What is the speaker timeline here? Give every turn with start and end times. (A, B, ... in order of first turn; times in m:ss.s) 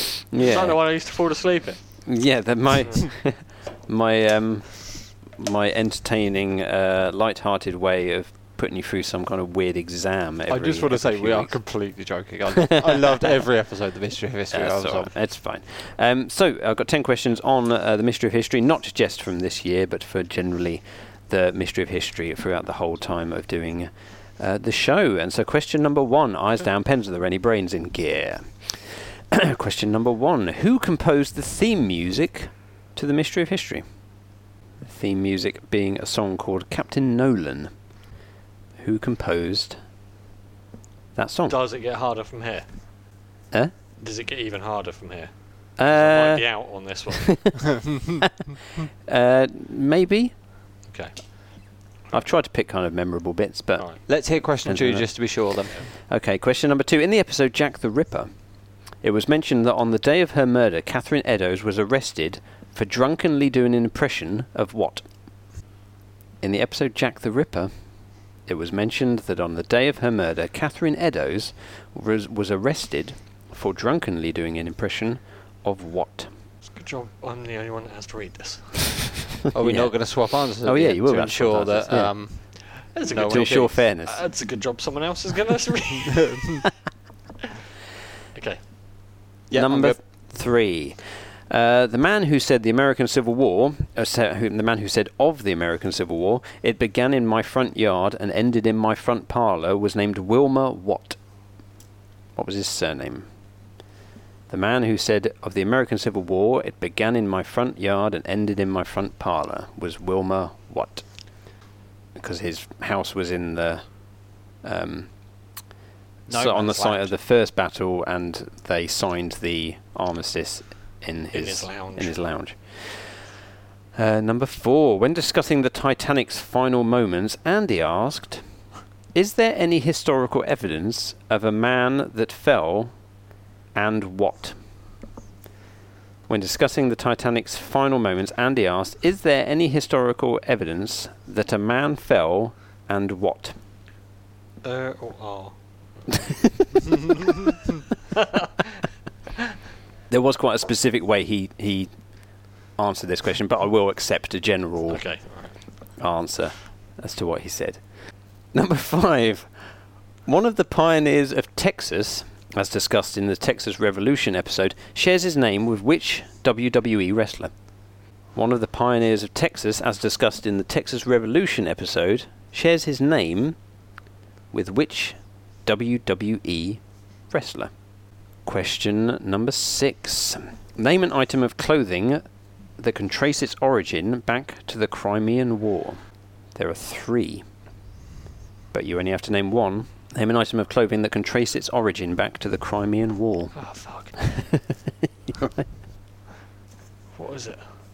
0:00.3-0:00.8 A
0:00.4-0:01.8 B
0:02.0-0:11.6 A
0:10.5-0:15.1 C
0:12.7-0:13.0 A
0:14.5-0:33.8 A
0:34.8-0:37.7 A
0:38.8-0:39.8 A
0:41.1-0:41.6 A
0:41.5-0:42.6 B
0:44.0-0:47.5 B
0:45.8-0:47.6 A
0:49.0-0:50.3 A
0:50.9-0:51.1 B
0:52.1-0:53.9 A
0:54.1-0:55.8 C
0:54.6-0:55.4 A
0:56.1-0:58.3 A
0:59.0-1:05.0 A
1:06.4-1:07.7 A
1:08.4-1:16.3 A
1:16.7-1:19.2 B
1:19.5-1:23.7 C
1:19.6-1:22.1 A
1:22.9-1:26.7 B
1:23.1-1:24.2 A
1:28.3-1:28.6 B
1:29.5-1:30.0 C
1:29.5-1:41.2 A
1:42.4-1:43.2 A
1:44.5-1:51.0 A
1:52.2-1:54.0 A
1:54.6-1:55.1 A
1:56.3-1:57.1 C
1:56.3-2:03.2 A
2:01.3-2:02.2 B
2:03.9-2:08.4 A
2:09.1-2:12.9 A
2:13.7-2:14.6 A
2:16.3-2:23.6 A
2:24.6-2:27.3 B
2:30.1-2:31.9 A
2:32.7-2:35.1 A
2:34.9-2:35.6 B
2:36.0-2:37.8 A
2:38.5-2:39.5 A
2:40.2-2:47.5 A
2:48.3-2:53.6 A
2:54.5-2:57.7 A
2:58.4-3:02.2 A
3:02.8-3:06.0 A
3:06.5-3:07.4 A
3:08.7-3:13.6 A
3:13.5-3:14.2 B
3:14.3-3:14.7 A
3:15.3-3:15.6 A
3:17.1-3:17.6 B